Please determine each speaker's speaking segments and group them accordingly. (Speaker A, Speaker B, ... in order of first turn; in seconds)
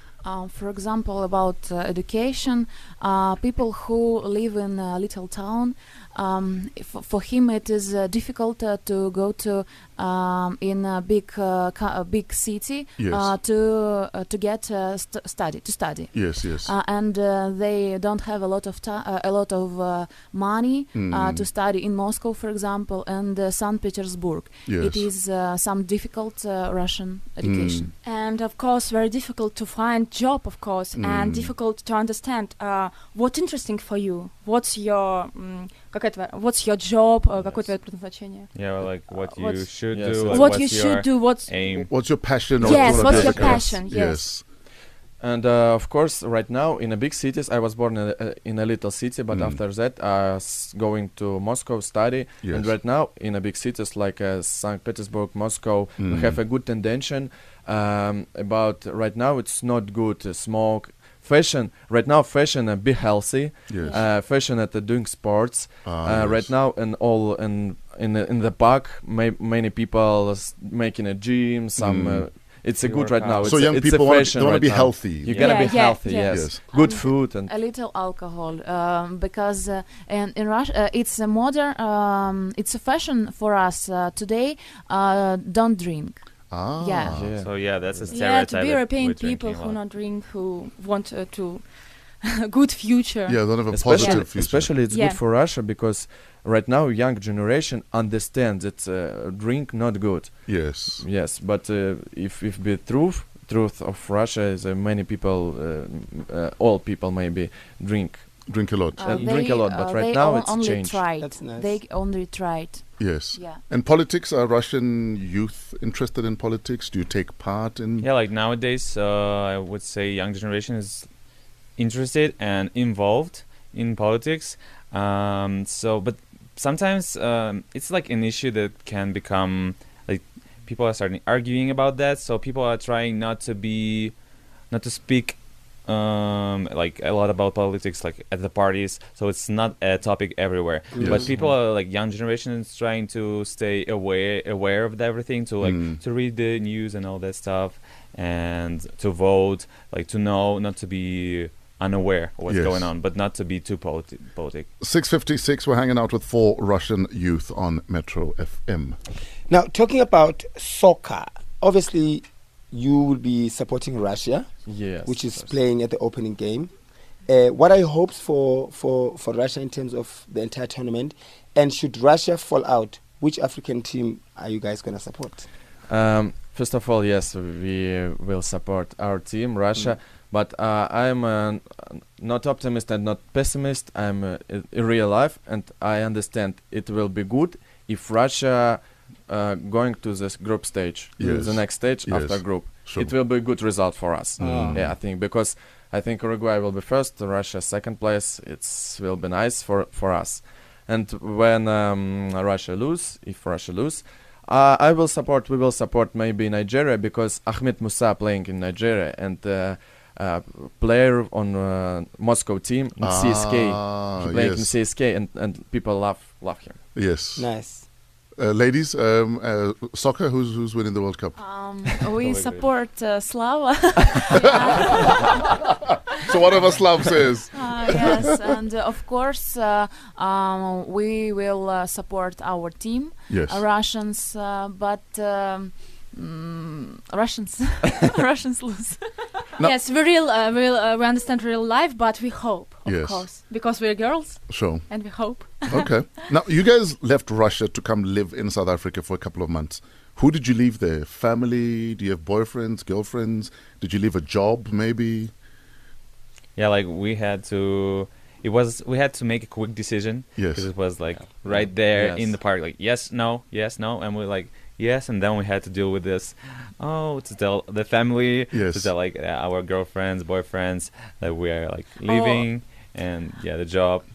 Speaker A: 0.2-27.9, 76.7-86.2, 86.8-87.2, 109.0-113.6, 221.4-225.2, 227.5-239.0
Speaker B: 13.0-13.3, 16.1-16.7, 20.9-21.5, 24.7-25.1, 27.4-27.9, 30.9-31.5, 41.9-44.4, 49.3-49.6, 52.4-52.7, 56.0-56.4, 63.7-64.0, 65.8-66.5, 71.8-72.3, 73.4-75.5, 76.2-76.6, 86.5-87.3, 93.3-94.7, 100.5-101.1, 108.5-109.1, 113.0-118.1, 145.6-146.0, 152.5-152.9, 154.8-159.0, 191.2-193.1, 194.4-194.8, 213.0-214.7, 216.9-217.5, 218.4-221.4, 226.2-228.3, 233.3-233.6, 242.8-243.3, 244.5-244.9, 245.4-255.3, 260.4-260.7, 268.5-268.9
Speaker C: 28.0-38.5, 39.1-41.5, 42.6-44.4, 75.4-76.5, 88.1-91.7, 92.2-94.2, 94.9-95.2, 239.6-246.0, 272.1-272.5
Speaker D: 38.5-41.9, 43.1-43.5, 72.8-73.7, 75.2-75.7, 87.4-89.8, 118.0-121.1, 121.8-134.1, 134.7-154.7, 222.1-222.7, 256.6-274.1
Speaker E: 39.9-40.6, 42.9-43.6, 45.2-77.5, 87.1-88.2, 93.7-108.3, 109.0-111.1, 164.7-165.6, 175.9-216.8, 261.5-262.4
Speaker F: 109.1-109.4, 111.2-111.8, 140.9-141.2, 159.5-164.5, 165.0-166.7, 167.3-175.5, 194.4-194.9, 217.4-217.9